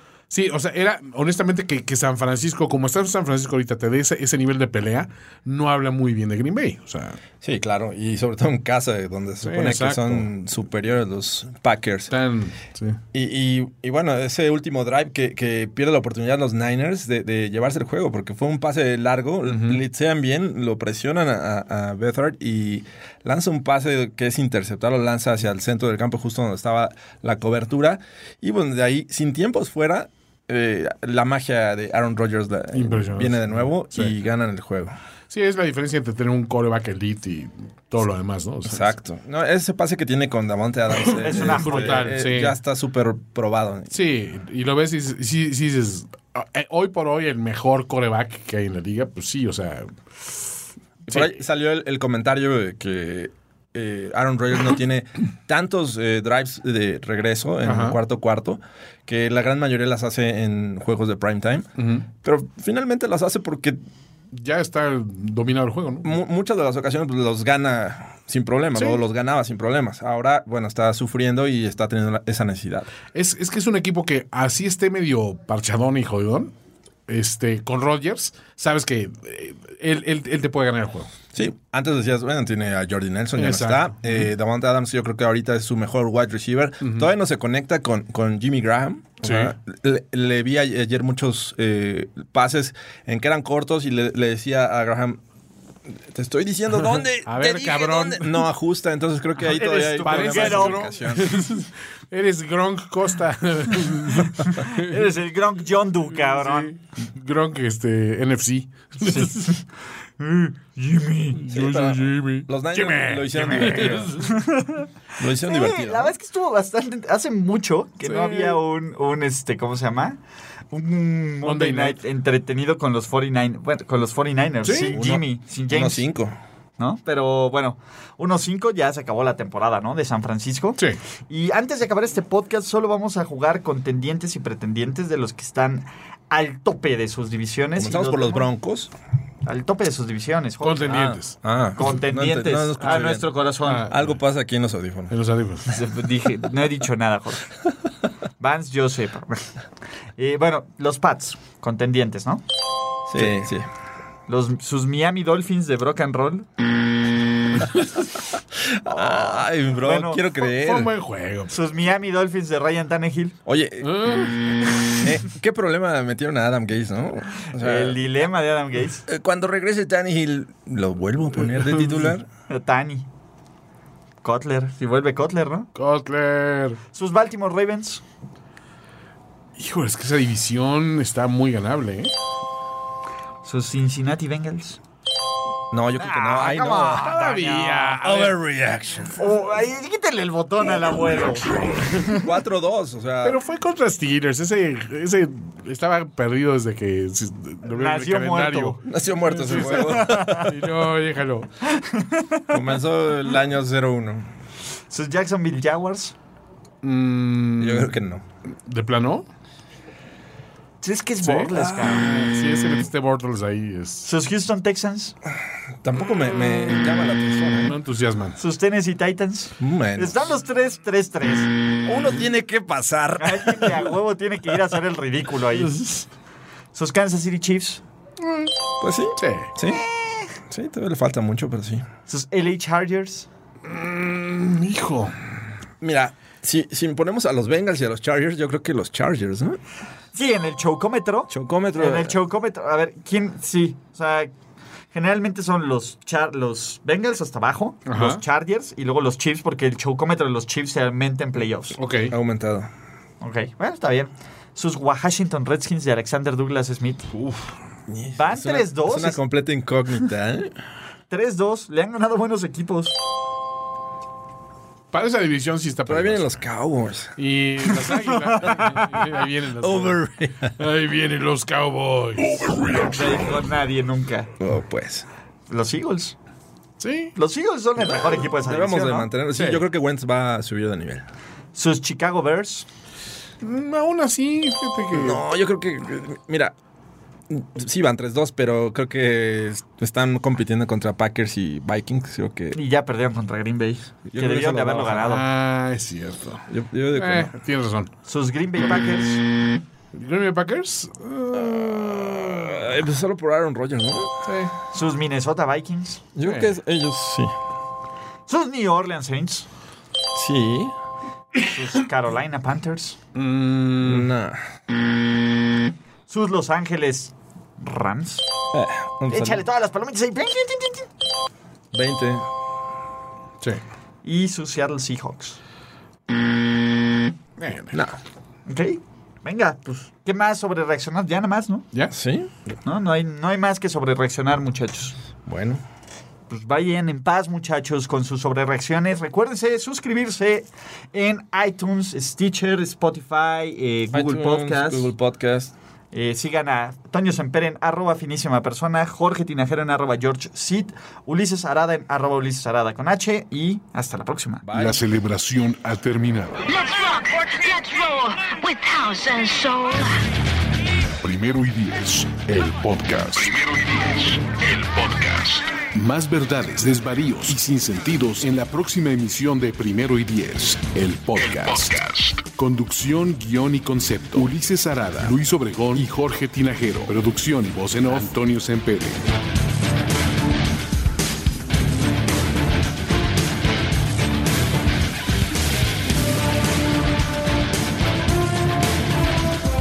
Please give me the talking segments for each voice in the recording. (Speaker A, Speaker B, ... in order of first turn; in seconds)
Speaker A: 0.3-7.2, 9.4-10.3, 12.1-13.0, 19.4-19.8, 32.7-34.1, 35.3-38.9, 41.3-42.6, 43.9-49.9, 51.1-51.4, 57.6-58.0, 61.8-62.0, 64.3-66.1, 68.8-69.0, 73.1-76.5, 77.1-81.1, 83.3-84.3, 86.8-87.1, 89.2-89.5, 96.9-98.4, 99.5-105.0, 106.2-109.5, 111.4-114.3, 118.0-118.6, 121.4-122.0, 124.6-125.0, 140.6-141.3, 143.6-144.2, 145.1-145.7, 160.4-161.6, 163.8-164.7, 171.6-172.1, 175.7-176.8, 179.6-182.1, 187.0-188.3, 193.2-201.5, 206.8-207.9, 208.7-209.2, 211.2-214.1, 217.6-218.4, 228.2-228.5, 229.2-229.5, 233.6-235.3, 247.9-248.2, 251.8-252.1, 264.9-266.4, 267.2-270.0, 270.6-272.4, 276.8-277.1, 279.3-279.6, 283.4-285.2, 295.0-297.9, 299.9-302.6, 304.2-304.5, 306.2-306.5, 313.1-314.1, 327.4-327.8, 366.4-367.4, 367.9-368.4, 371.0-371.7, 374.0-375.1, 377.7-378.1
Speaker B: 7.4-12.1, 13.1-34.9, 38.6-43.9, 51.1-63.8, 66.0-72.9, 81.3-95.2, 96.1-101.5, 111.5-114.2, 115.2-116.2, 124.9-126.3, 137.8-138.9, 140.9-145.1, 153.1-153.7, 158.5-160.9, 163.4-163.9, 165.0-168.0, 169.1-172.3, 185.7-187.2, 188.0-189.3, 192.1-193.4, 198.8-200.4, 202.5-204.3, 207.6-208.2, 211.6-212.2, 215.8-217.7, 219.6-220.3, 221.8-223.9, 228.8-229.8, 230.5-231.9, 235.8-239.6, 241.3-242.1, 252.1-252.7, 257.1-260.5, 265.9-267.1, 269.6-270.6, 274.4-275.1, 277.9-281.0, 284.9-286.5, 287.3-292.6, 294.1-295.1, 296.5-297.3, 301.3-304.1, 306.1-307.3, 310.1-310.7, 313.8-314.4, 318.5-319.4, 321.7-322.3, 327.7-328.0, 331.9-332.3, 335.2-335.6, 343.9-345.5, 354.4-354.9
Speaker C: 41.1-42.1, 99.5-100.8, 104.4-106.7, 109.0-109.6, 110.2-111.5, 114.2-120.2, 120.7-126.0, 126.8-138.5, 139.4-141.1, 141.7-143.9, 145.7-147.5, 148.4-149.5, 150.2-152.4, 154.3-156.5, 158.9-160.2, 161.5-163.3, 167.5-169.1, 172.5-173.1, 174.2-175.7, 176.9-178.0, 183.4-184.8, 186.0-188.2, 189.2-192.2, 197.7-198.8, 199.6-200.6, 201.6-202.6, 204.9-206.1, 210.8-212.1, 214.0-215.1, 218.4-221.5, 223.2-225.9, 226.7-227.8, 232.1-233.3, 240.1-244.3, 244.9-251.8, 253.2-257.1, 258.2-259.2, 261.1-262.9, 267.8-269.0, 272.9-274.3, 275.5-276.1, 277.1-279.1, 281.5-282.7, 292.5-295.2, 298.1-299.2, 304.7-306.1, 308.3-309.5, 311.4-313.0, 316.1-318.2, 319.1-320.9, 324.0-325.4, 328.4-331.6, 332.6-335.0, 336.3-344.9, 345.9-354.4
Speaker D: 354.5-356.3, 361.0-379.0
Speaker E: 356.4-359.9